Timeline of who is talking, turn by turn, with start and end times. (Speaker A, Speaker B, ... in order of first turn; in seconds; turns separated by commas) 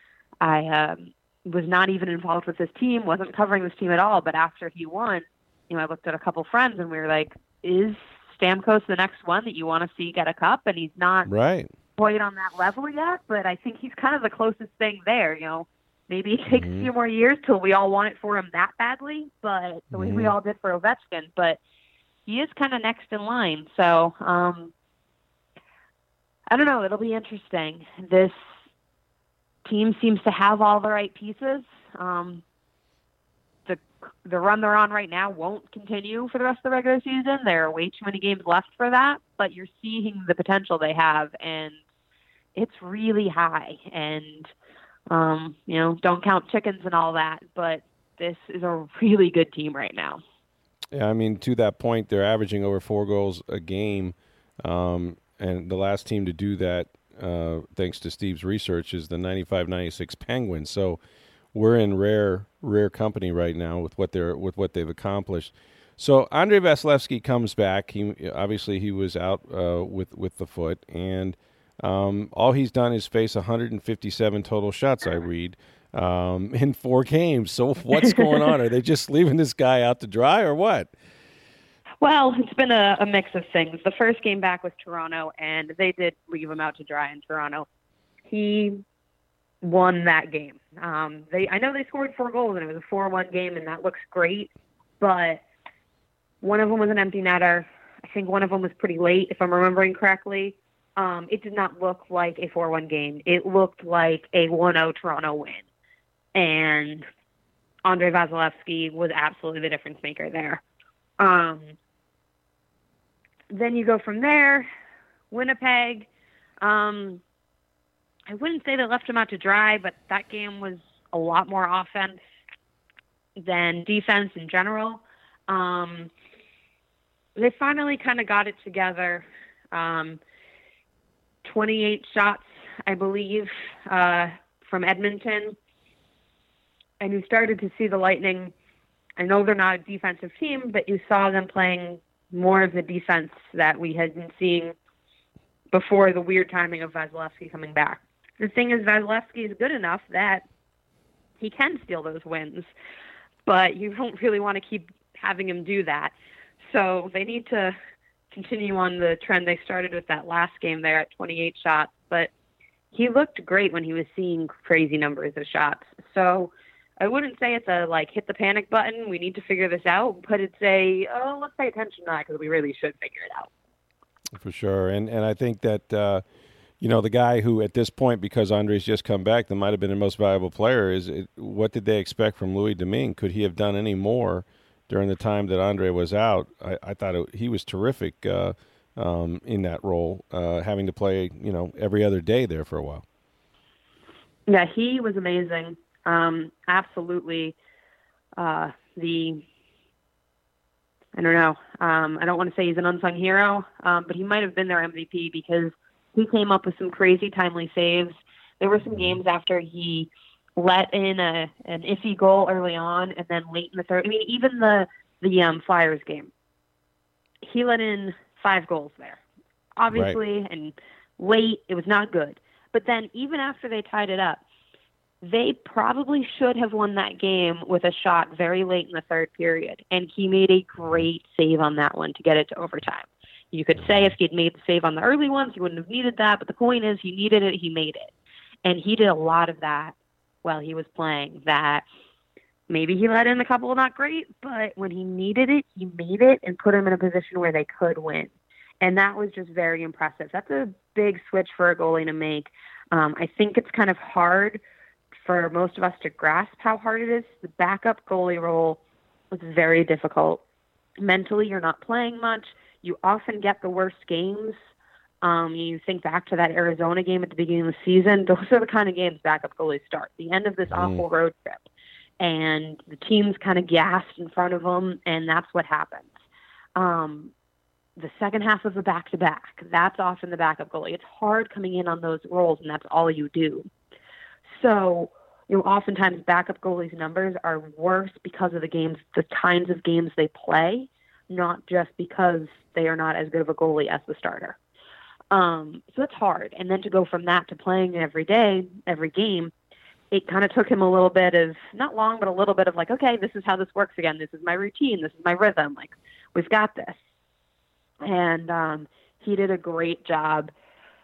Speaker A: 0.4-11.3, Speaker B: 11.3-11.7, Speaker A: 12.0-21.6, Speaker B: 16.5-16.9, Speaker B: 19.9-20.3, Speaker A: 22.2-24.7, Speaker A: 26.5-28.3, Speaker A: 29.6-32.4, Speaker A: 33.7-41.8, Speaker A: 42.5-44.5, Speaker A: 45.1-50.2, Speaker B: 50.9-61.0, Speaker B: 61.5-80.9, Speaker A: 78.0-78.3, Speaker A: 82.0-87.7, Speaker A: 88.3-88.8, Speaker A: 89.6-95.4, Speaker A: 96.4-105.6, Speaker A: 106.3-107.1, Speaker A: 107.8-110.6, Speaker A: 111.2-111.7, Speaker A: 113.5-114.7, Speaker A: 115.3-116.1, Speaker A: 116.6-117.2, Speaker A: 118.3-122.2, Speaker A: 123.4-126.1, Speaker A: 127.3-130.2, Speaker A: 131.4-135.6, Speaker A: 137.0-138.5, Speaker A: 139.2-144.7, Speaker A: 145.7-150.4, Speaker A: 151.4-152.7, Speaker A: 153.4-157.7, Speaker A: 158.3-162.3, Speaker A: 162.9-173.5, Speaker B: 174.3-176.2, Speaker B: 176.8-193.0, Speaker A: 194.5-197.5, Speaker A: 198.4-199.4, Speaker A: 201.2-216.3, Speaker A: 217.4-219.2, Speaker A: 219.8-224.4, Speaker B: 219.9-220.2, Speaker A: 225.2-238.1, Speaker A: 238.6-241.8, Speaker A: 242.7-254.6, Speaker A: 255.2-260.4, Speaker A: 261.0-264.6, Speaker A: 265.2-271.6, Speaker B: 270.7-271.0, Speaker A: 272.2-276.1, Speaker A: 276.8-277.3, Speaker A: 278.0-283.7, Speaker A: 284.4-294.6, Speaker A: 295.3-299.5, Speaker A: 300.1-307.0, Speaker A: 308.0-310.5